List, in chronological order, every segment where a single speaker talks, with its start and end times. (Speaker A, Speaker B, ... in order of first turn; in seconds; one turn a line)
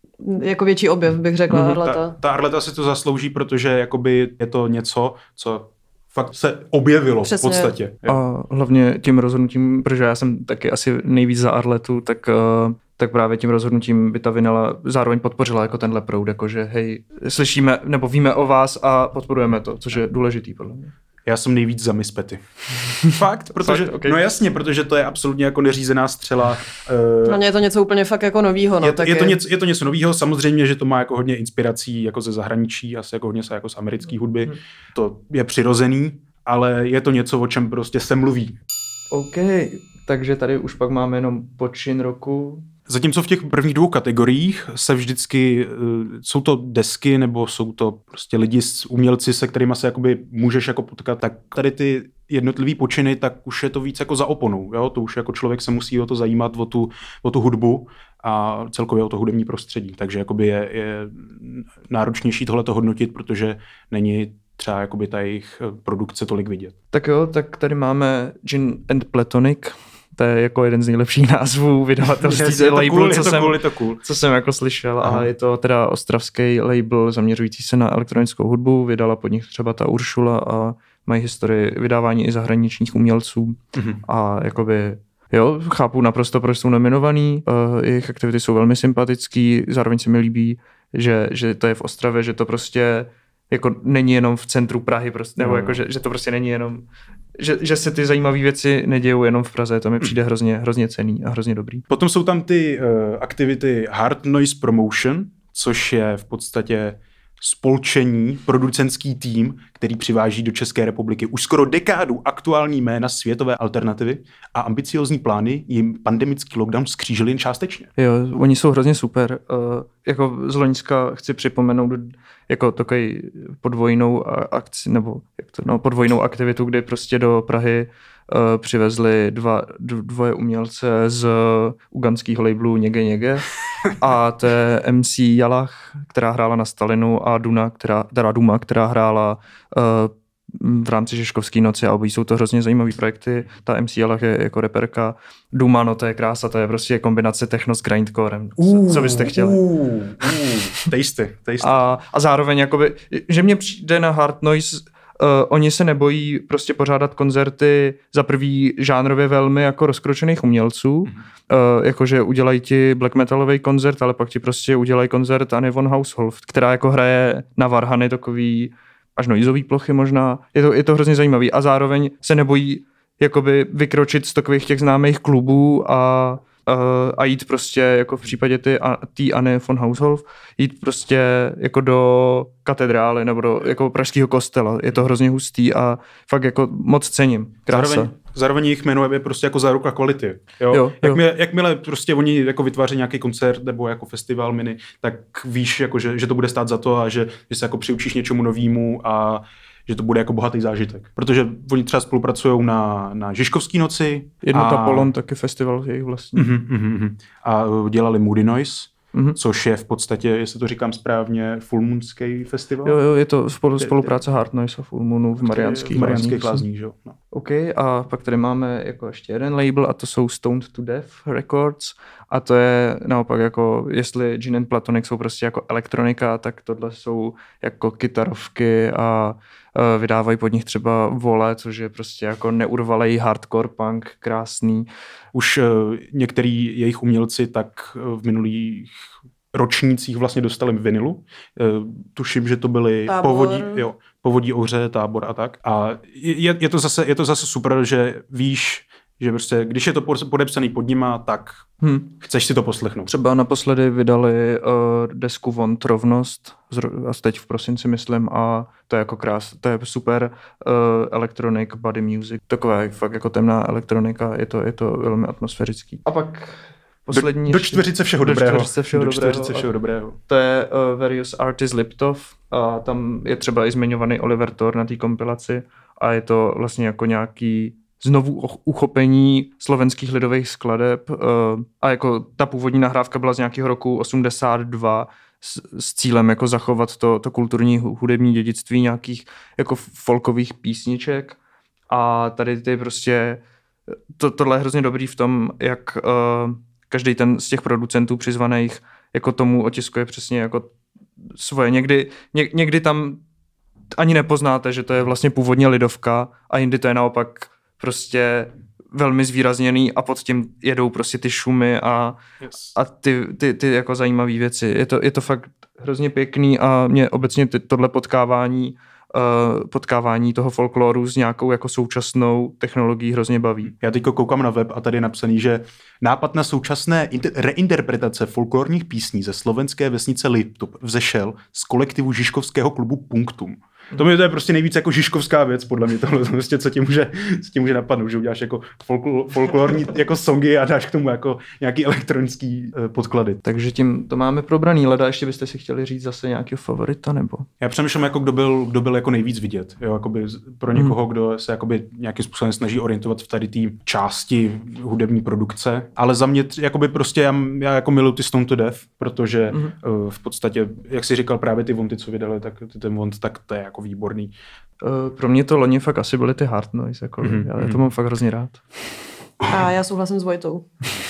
Speaker A: 0.2-2.1
Speaker B: 1.5-8.2
Speaker A: 7.2-7.7
Speaker C: 8.1-20.9
Speaker B: 21.2-27.4
Speaker C: 23.6-24.2
Speaker A: 27.2-29.4
Speaker B: 28.8-38.6
Speaker C: 39.1-42.7
Speaker B: 42.9-66.7
Speaker C: 66.9-96.9
Speaker B: 72.2-74.0
Speaker B: 75.0-75.3
Speaker B: 83.7-84.0
Speaker B: 95.4-95.8
Speaker C: 97.4-101.8
Speaker B: 101.9-117.9
Speaker C: 118.0-149.6
Speaker B: 148.6-151.8
Speaker C: 151.6-188.1
Speaker B: 187.7-205.1
Speaker C: 190.7-191.2
Speaker C: 204.4-206.5
Speaker B: 206.3-213.0
Speaker C: 212.8-216.6
Speaker B: 213.8-214.1
Speaker B: 215.4-217.2
Speaker C: 217.3-234.9
Speaker B: 235.3-239.0
Speaker B: 239.5-253.1
Speaker A: 243.1-243.8
Speaker C: 251.8-252.1
Speaker C: 253.1-269.7
Speaker B: 267.1-270.2
Speaker C: 270.3-291.4
Speaker C: 291.9-300.7
Speaker C: 301.3-303.2
Speaker C: 303.9-312.2
Speaker B: 312.4-312.7
Speaker C: 312.7-323.7
Speaker B: 323.7-343.4
Speaker C: 343.4-347.5
Speaker B: 347.6-364.3
Speaker C: 364.8-368.6
Speaker B: 367.2-367.8
Speaker A: 369.5-370.6